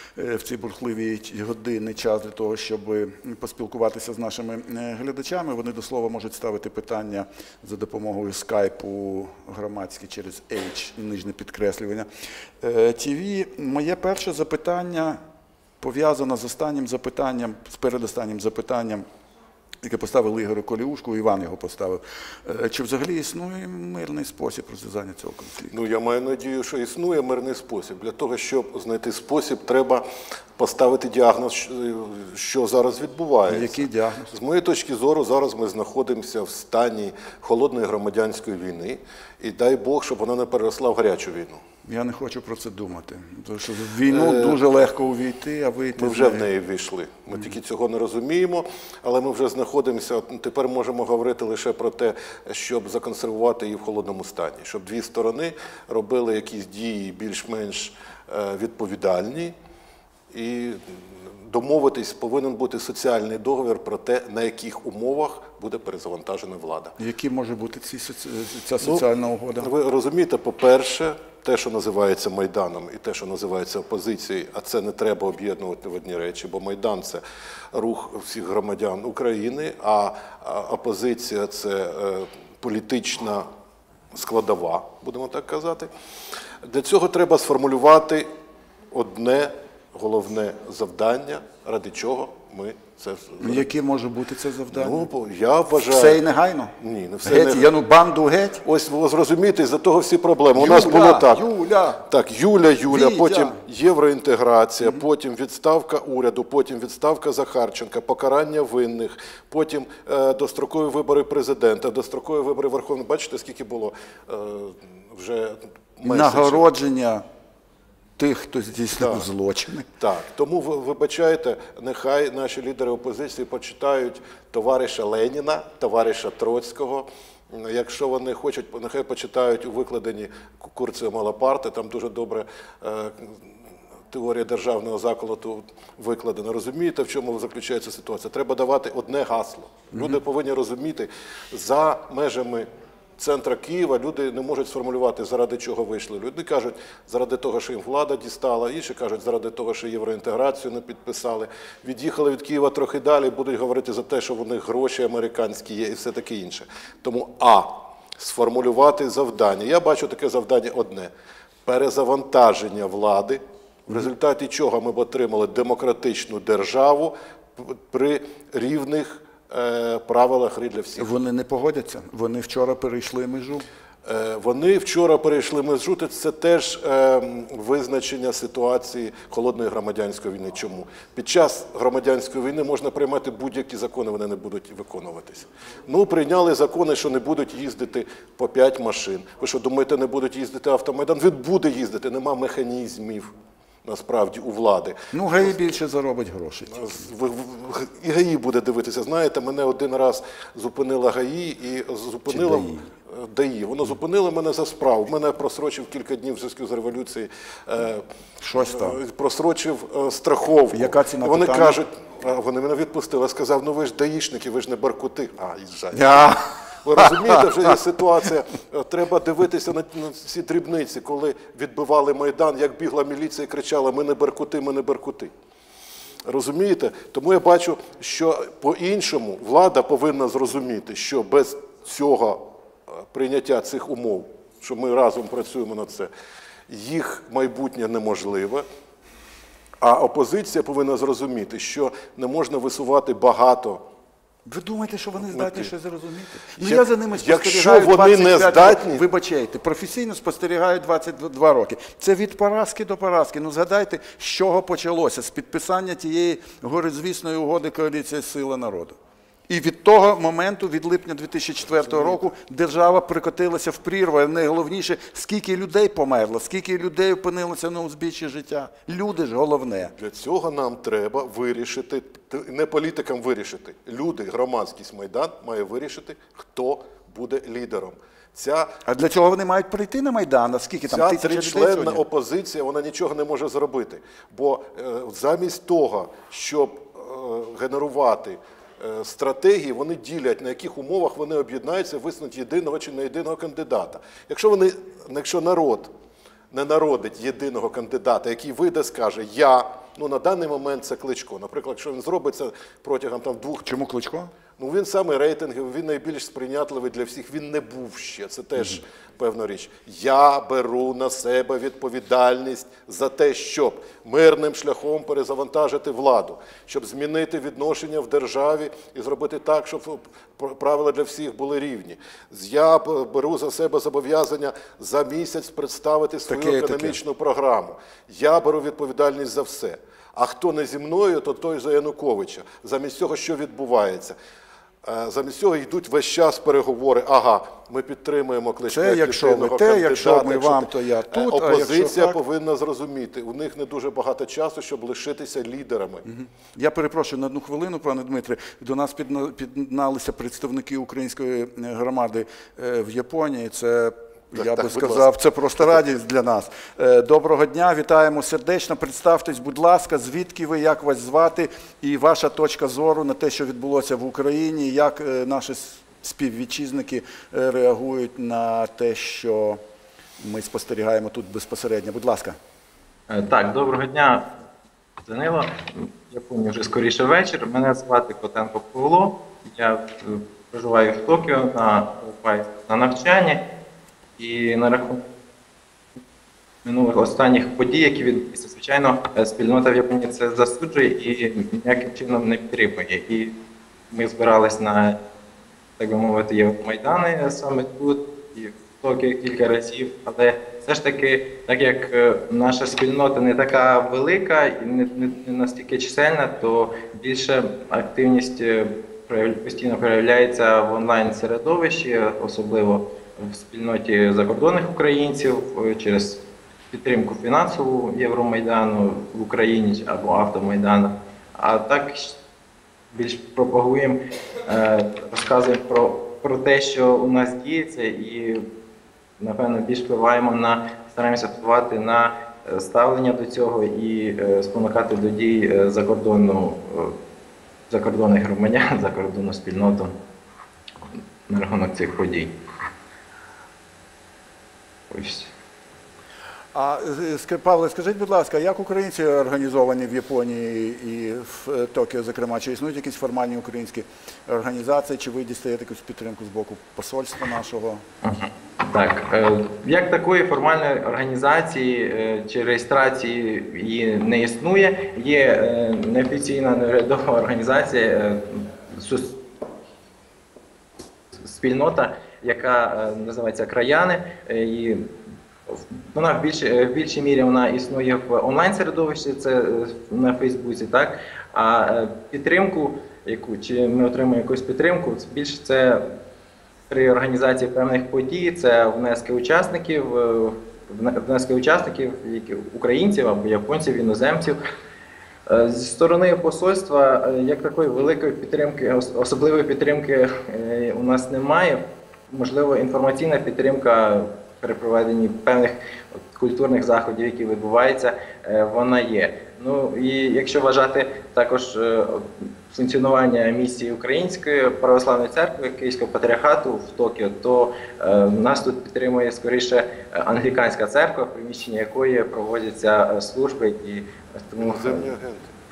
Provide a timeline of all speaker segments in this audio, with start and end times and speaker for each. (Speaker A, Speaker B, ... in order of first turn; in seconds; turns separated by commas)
Speaker A: 0.1-12.1, Speaker A: 12.6-15.2, Speaker A: 15.8-19.0, Speaker A: 19.8-25.7, Speaker B: 25.7-30.0, Speaker B: 30.6-41.6, Speaker A: 33.5-34.3, Speaker A: 41.9-46.5, Speaker B: 44.1-44.6, Speaker B: 46.0-59.5, Speaker B: 60.3-67.0, Speaker A: 67.0-69.7, Speaker B: 69.6-83.5, Speaker B: 84.1-85.9, Speaker B: 86.6-88.3, Speaker B: 88.9-93.6, Speaker A: 93.4-95.0, Speaker B: 94.7-96.2, Speaker A: 95.8-96.7, Speaker B: 96.8-97.7, Speaker A: 97.2-98.6, Speaker B: 98.6-101.4, Speaker A: 100.5-102.0, Speaker B: 102.0-116.6, Speaker A: 102.9-103.6, Speaker A: 116.0-117.2, Speaker A: 118.2-119.9, Speaker B: 119.0-119.2, Speaker B: 120.0-133.5, Speaker B: 134.1-142.7, Speaker A: 139.9-140.2, Speaker B: 143.2-161.1, Speaker B: 161.7-171.1, Speaker A: 171.0-173.6, Speaker B: 174.1-193.3, Speaker B: 193.8-195.7, Speaker A: 195.1-197.0, Speaker B: 196.7-216.3, Speaker A: 202.3-202.9, Speaker A: 208.4-209.0, Speaker A: 210.7-211.8, Speaker A: 215.9-217.7, Speaker B: 216.8-225.3, Speaker B: 226.2-232.4, Speaker B: 233.1-236.1, Speaker B: 236.7-238.6, Speaker B: 239.8-243.8, Speaker A: 244.4-258.9, Speaker B: 245.3-245.7, Speaker B: 246.6-249.0, Speaker A: 259.5-269.9, Speaker B: 261.7-262.3, Speaker B: 270.0-278.7, Speaker A: 278.9-282.0, Speaker B: 280.9-295.9, Speaker B: 296.5-303.7, Speaker A: 303.6-304.3, Speaker B: 304.6-334.1, Speaker A: 326.3-327.0, Speaker B: 334.8-346.0, Speaker A: 338.7-342.2, Speaker A: 346.1-369.6, Speaker B: 354.3-355.1, Speaker A: 370.2-372.4, Speaker C: 373.1-374.3, Speaker C: 375.0-383.4, Speaker C: 384.2-385.0, Speaker C: 386.6-393.3, Speaker C: 393.9-395.0, Speaker C: 395.8-422.2, Speaker C: 422.9-428.4, Speaker C: 429.2-437.0, Speaker C: 437.7-439.9, Speaker C: 440.9-442.3, Speaker C: 444.9-445.3, Speaker A: 446.5-457.8, Speaker C: 458.0-469.2, Speaker C: 471.2-474.9, Speaker C: 475.5-485.9, Speaker C: 486.7-494.4, Speaker C: 495.3-524.9, Speaker B: 524.4-525.3